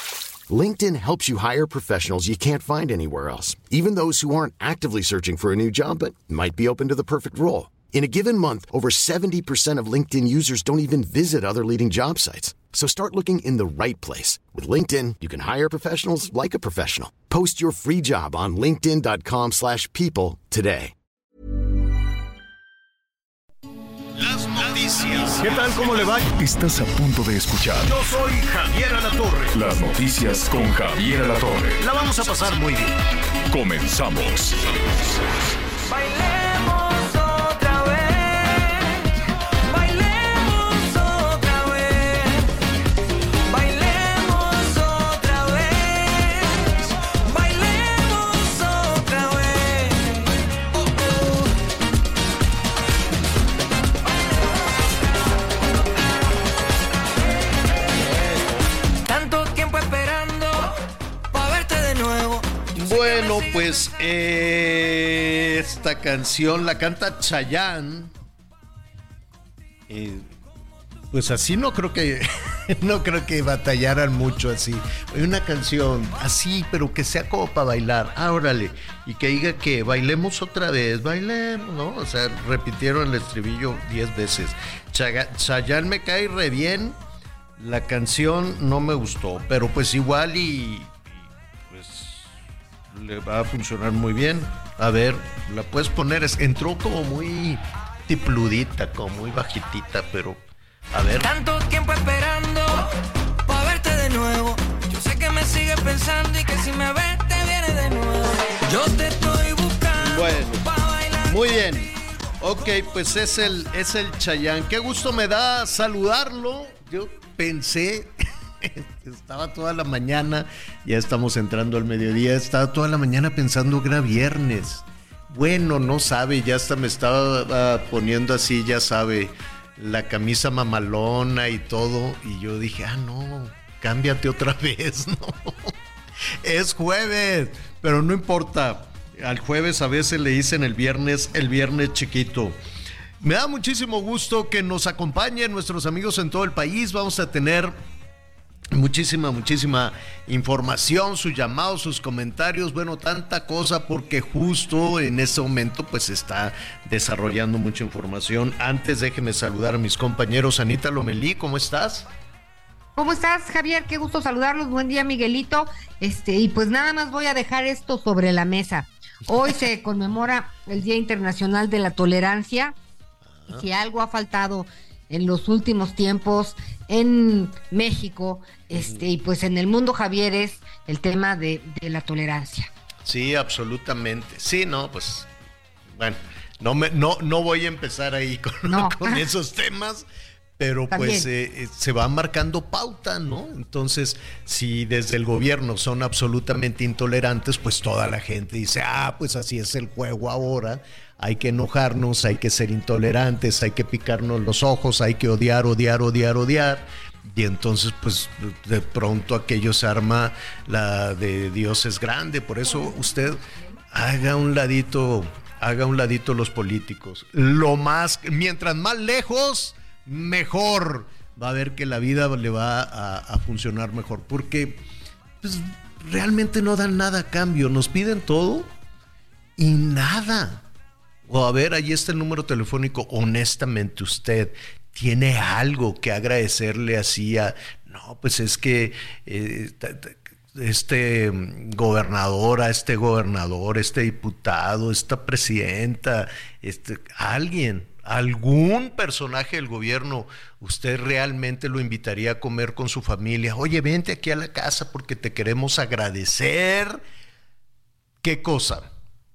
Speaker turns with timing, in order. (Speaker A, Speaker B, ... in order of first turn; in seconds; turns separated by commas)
Speaker A: 0.5-20.9, Speaker B: 24.2-26.4, Speaker C: 26.3-28.0, Speaker B: 27.8-29.6, Speaker C: 29.5-31.8, Speaker B: 31.8-32.9, Speaker C: 33.5-35.2, Speaker D: 35.9-39.1, Speaker D: 39.6-42.5, Speaker D: 43.5-51.4, Speaker D: 59.0-60.7, Speaker D: 61.3-63.9, Speaker B: 62.8-68.1, Speaker B: 69.9-70.3, Speaker B: 71.1-87.0, Speaker B: 87.6-91.1, Speaker B: 91.7-92.3, Speaker B: 92.9-101.3, Speaker D: 101.2-102.9, Speaker D: 103.5-111.9, Speaker B: 110.0-110.7, Speaker B: 111.2-135.7, Speaker B: 136.4-142.6, Speaker B: 143.2-147.7, Speaker B: 148.7-162.1, Speaker E: 162.9-172.8, Speaker B: 173.3-173.6, Speaker E: 173.5-182.7, Speaker B: 183.0-185.3, Speaker B: 185.9-190.1, Speaker E: 188.7-189.2, Speaker B: 190.6-213.4, Speaker E: 190.9-191.3, Speaker B: 213.9-224.8, Speaker B: 225.4-228.7, Speaker B: 229.6-230.6, Speaker B: 231.2-257.0, Speaker B: 258.2-258.9